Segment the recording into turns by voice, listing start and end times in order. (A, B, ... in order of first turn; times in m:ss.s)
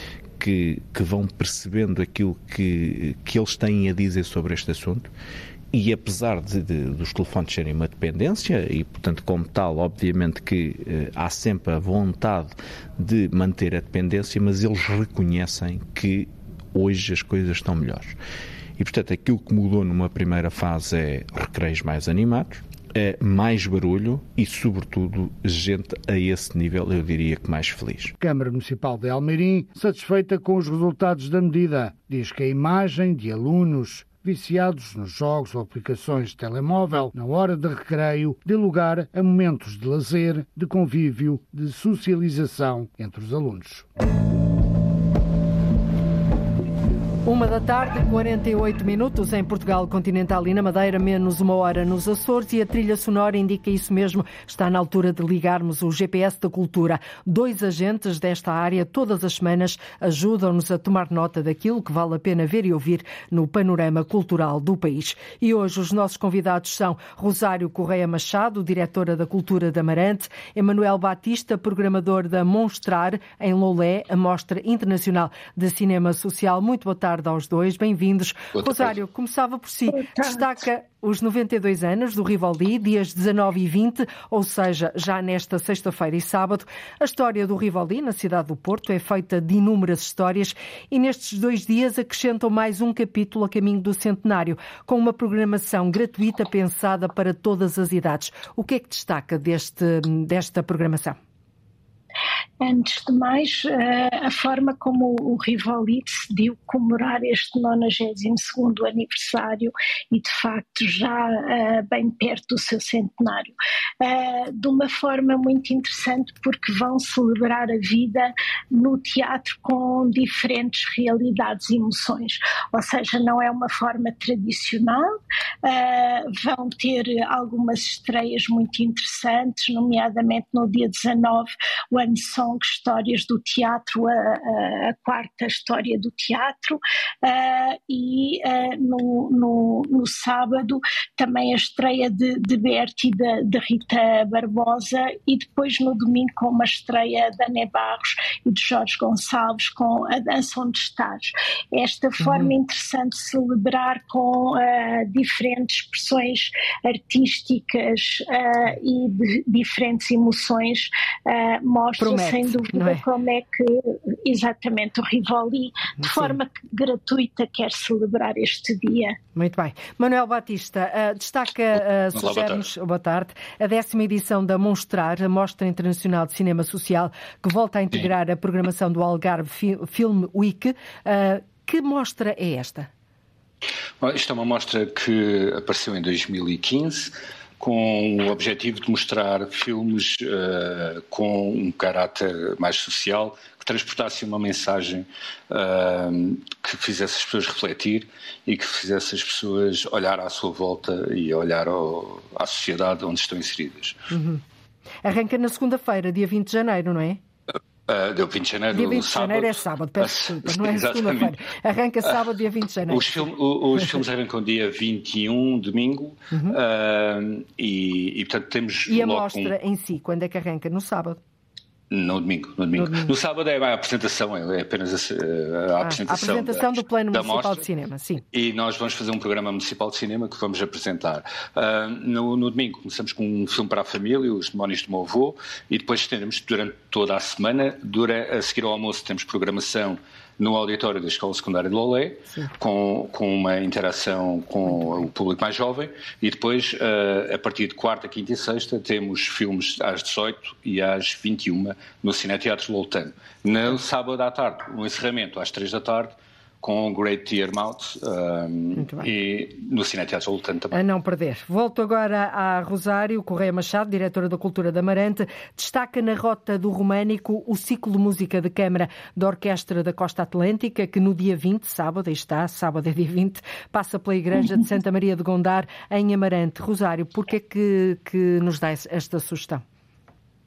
0:00.4-0:05.1 A
0:05.7-0:18.2 A
0:18.8-0:28.1 A
0:28.2-0:43.9 B
0:47.2-1:41.2 C
1:19.9-1:20.5 D
1:42.6-2:05.1 D
2:05.6-2:49.2 D
2:32.2-2:32.5 C
2:42.0-2:43.0 C
2:46.0-2:46.4 C
2:49.4-3:02.9 C
2:52.1-2:52.6 E
3:04.0-3:24.0 E
3:24.1-3:24.4 C
3:25.0-3:27.2 C
3:27.9-3:31.4 E
3:28.7-3:33.3 C
3:32.9-3:39.5 E
3:38.9-3:41.2 C
3:41.9-3:47.6 E
3:42.7-3:43.1 C
3:45.8-3:48.2 C
3:48.3-4:20.8 E
4:04.7-4:05.0 C
4:18.8-4:19.1 C
4:20.7-4:39.6 C